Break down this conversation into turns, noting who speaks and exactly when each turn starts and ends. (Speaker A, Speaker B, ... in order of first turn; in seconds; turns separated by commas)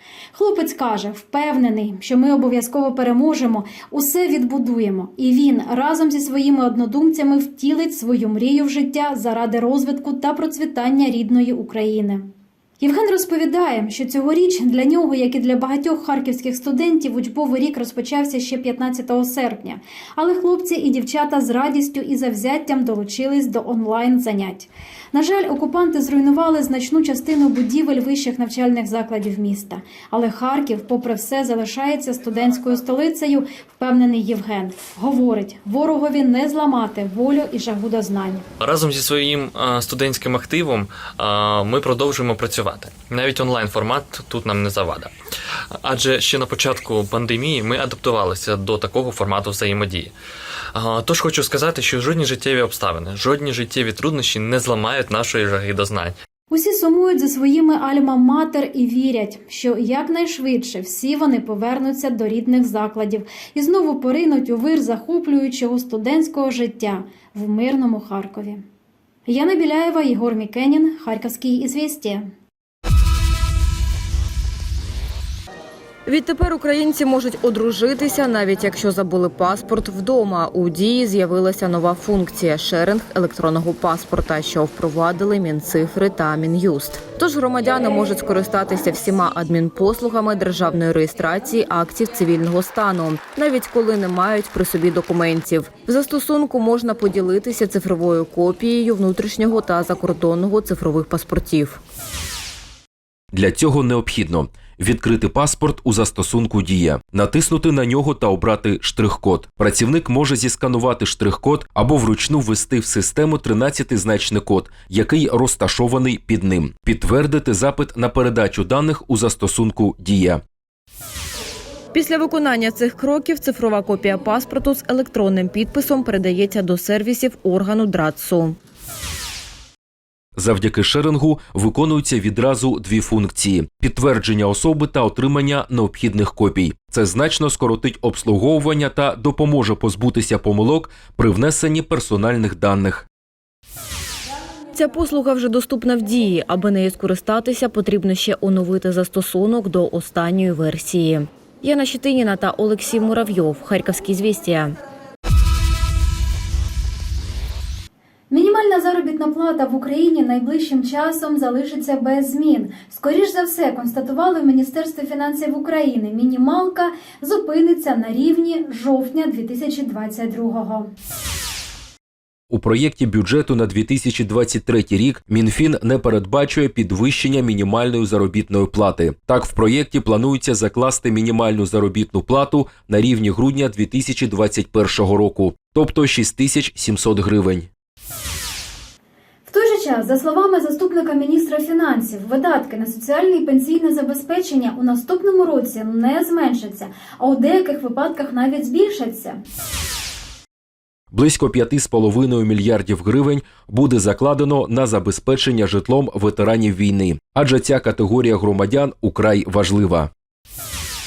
Speaker A: 0.3-38.5, Speaker B: 38.6-45.1, Speaker B: 45.8-50.1, Speaker B: 50.7-56.2, Speaker A: 56.5-68.7, Speaker A: 69.3-72.3, Speaker C: 76.1-101.8, Speaker D: 103.3-120.4, Speaker C: 121.9-128.6, Speaker D: 130.4-143.1, Speaker C: 144.7-154.8, Speaker A: 158.3-170.9, Speaker D: 172.5-187.7, Speaker A: 189.5-199.4, Speaker D: 201.1-210.1